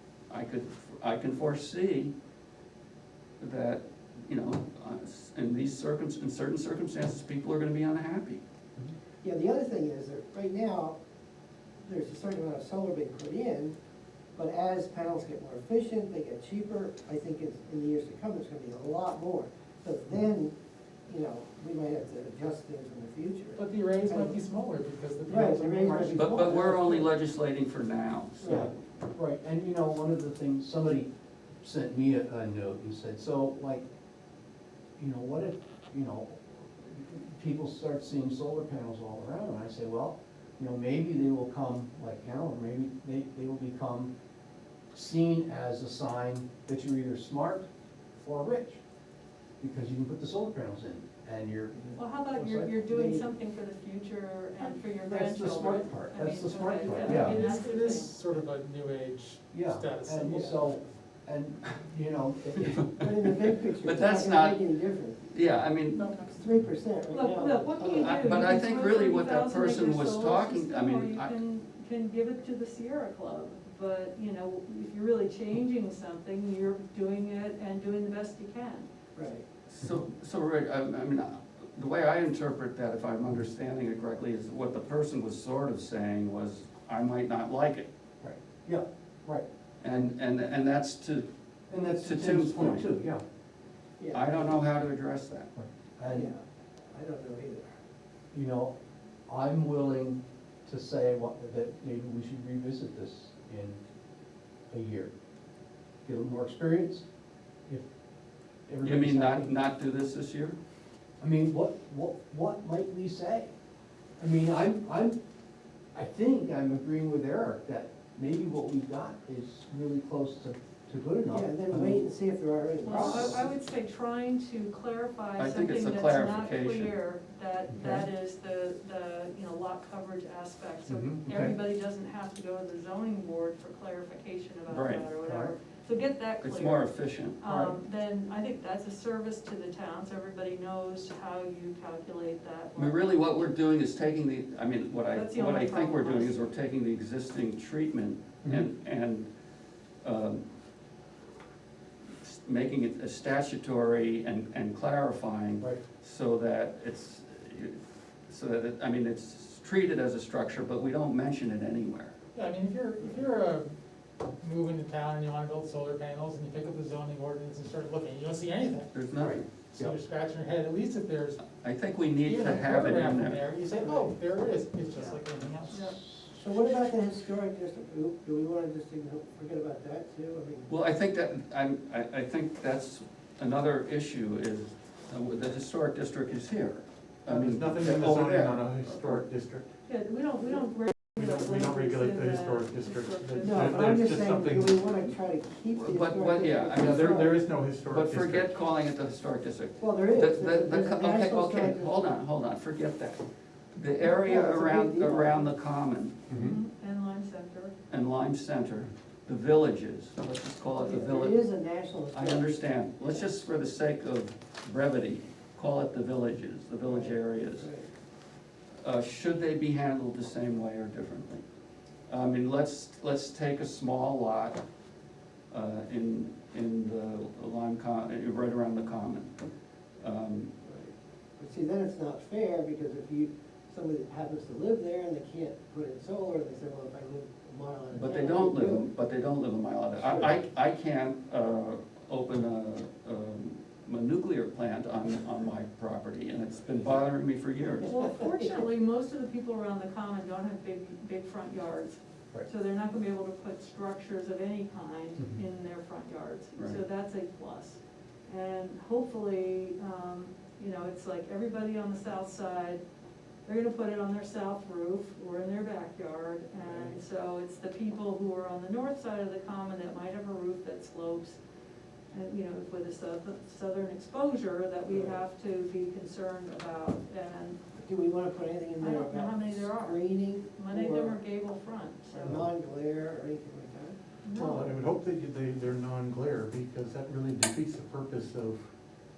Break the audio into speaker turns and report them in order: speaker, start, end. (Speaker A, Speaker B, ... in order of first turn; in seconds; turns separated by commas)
Speaker A: 0.3-2.1, Speaker A: 3.4-8.4, Speaker B: 9.2-11.0, Speaker B: 11.8-13.8, Speaker B: 14.4-20.5, Speaker B: 21.1-24.4, Speaker C: 23.6-26.6, Speaker B: 25.2-27.1, Speaker A: 26.1-28.8, Speaker D: 28.4-31.1, Speaker D: 31.6-33.9, Speaker D: 35.0-44.1, Speaker D: 44.9-48.8, Speaker D: 49.6-51.8, Speaker E: 52.0-58.1, Speaker D: 52.3-53.2, Speaker D: 54.6-57.4, Speaker C: 56.8-60.8, Speaker D: 59.5-62.9, Speaker A: 62.6-64.7, Speaker B: 63.0-65.2, Speaker A: 65.2-66.1, Speaker B: 66.3-68.2, Speaker E: 67.1-78.9, Speaker A: 67.9-71.3, Speaker B: 79.2-79.5, Speaker A: 79.7-87.9, Speaker D: 88.2-89.5, Speaker A: 89.8-92.9, Speaker D: 91.7-93.2, Speaker B: 94.0-94.6, Speaker A: 94.1-95.5, Speaker D: 95.5-96.3, Speaker B: 96.1-96.4, Speaker B: 96.9-97.7, Speaker D: 98.3-98.7, Speaker D: 99.3-103.8, Speaker D: 104.7-105.1, Speaker D: 106.0-107.0, Speaker D: 108.7-109.5, Speaker A: 108.8-110.6, Speaker D: 111.2-113.5, Speaker D: 114.2-115.2, Speaker D: 115.9-122.1, Speaker B: 121.3-123.5, Speaker D: 122.8-123.4, Speaker E: 122.8-143.5, Speaker A: 125.4-126.9, Speaker D: 127.7-128.1, Speaker D: 130.9-131.6, Speaker A: 134.7-135.1, Speaker D: 135.2-135.5, Speaker A: 136.4-137.4, Speaker D: 137.5-137.8, Speaker A: 142.8-149.3, Speaker E: 145.1-146.5, Speaker A: 150.0-150.4, Speaker A: 152.2-162.2, Speaker C: 162.3-163.7, Speaker C: 164.4-168.9, Speaker A: 168.9-169.4, Speaker D: 169.1-169.9, Speaker C: 169.7-171.5, Speaker A: 171.4-173.4, Speaker C: 172.2-175.8, Speaker B: 173.8-174.2, Speaker E: 175.7-176.0, Speaker D: 175.7-176.3, Speaker B: 176.3-180.7, Speaker A: 180.7-189.2, Speaker F: 187.2-189.7, Speaker E: 189.9-193.8, Speaker F: 191.0-195.1, Speaker B: 193.4-197.4, Speaker A: 195.8-206.2, Speaker F: 196.7-198.6, Speaker B: 199.8-202.2, Speaker B: 204.0-205.5, Speaker D: 206.3-206.6, Speaker E: 206.3-207.8, Speaker A: 207.9-211.4, Speaker B: 210.8-213.3, Speaker A: 212.1-217.7, Speaker B: 216.8-217.9, Speaker A: 218.8-221.4, Speaker A: 222.1-224.6, Speaker A: 225.5-229.5, Speaker A: 230.0-230.5, Speaker B: 230.7-238.9, Speaker A: 237.9-247.9, Speaker B: 240.0-240.4, Speaker E: 247.8-262.8, Speaker D: 255.2-255.4, Speaker A: 256.6-256.8, Speaker E: 263.4-271.4, Speaker B: 266.6-267.0, Speaker E: 272.1-277.6, Speaker B: 274.9-275.2, Speaker B: 277.8-281.2, Speaker E: 278.8-282.4, Speaker B: 282.1-284.8, Speaker E: 284.2-284.7, Speaker F: 284.4-288.7